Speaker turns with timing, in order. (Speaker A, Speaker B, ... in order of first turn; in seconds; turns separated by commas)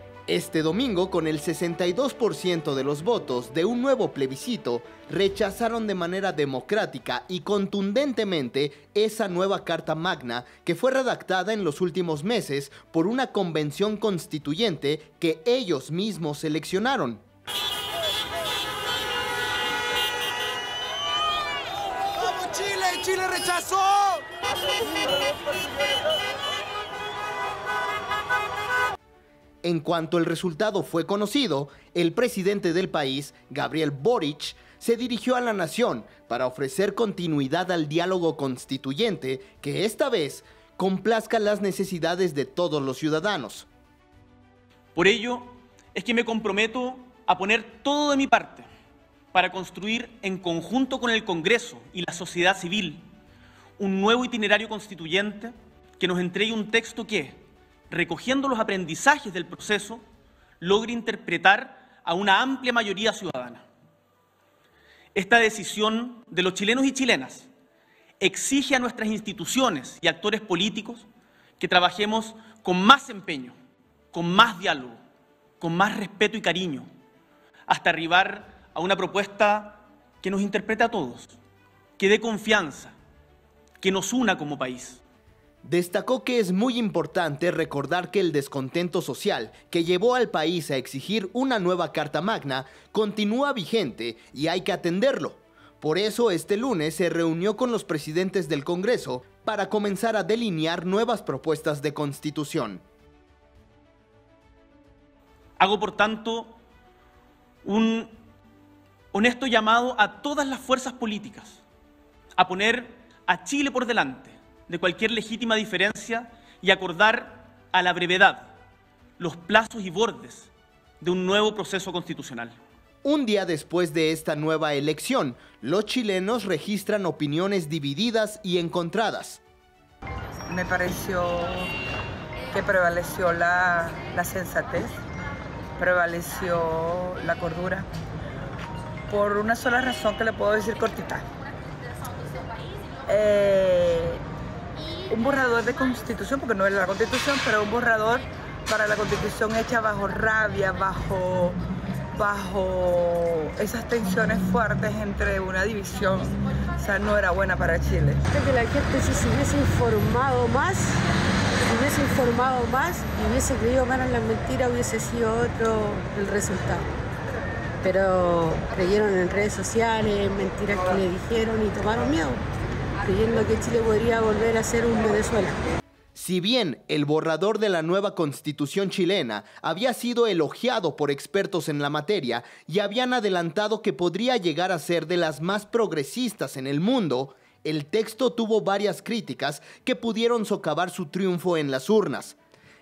Speaker A: 0.3-17.2, Speaker B: 22.2-24.2, Speaker A: 29.6-43.7, Speaker C: 45.0-48.7, Speaker C: 49.3-53.0, Speaker C: 53.8-60.0, Speaker C: 60.6-63.6, Speaker C: 65.1-67.5, Speaker C: 68.2-71.1, Speaker C: 71.6-73.5, Speaker C: 74.1-75.0, Speaker C: 75.6-76.9, Speaker C: 77.7-81.3, Speaker C: 82.0-83.0, Speaker C: 83.8-85.0, Speaker A: 85.6-102.8, Speaker C: 105.6-106.5, Speaker C: 107.6-108.1, Speaker C: 109.1-111.6, Speaker C: 112.4-118.5, Speaker C: 119.2-120.5, Speaker C: 121.0-122.5, Speaker A: 123.0-129.4, Speaker D: 130.5-131.7, Speaker D: 132.5-135.0, Speaker D: 135.8-137.9, Speaker D: 139.1-141.3, Speaker D: 143.1-144.2, Speaker D: 145.1-151.6, Speaker D: 152.1-158.2, Speaker E: 158.3-161.0, Speaker E: 161.6-166.9, Speaker E: 167.8-172.4, Speaker E: 173.0-175.6, Speaker A: 176.1-192.4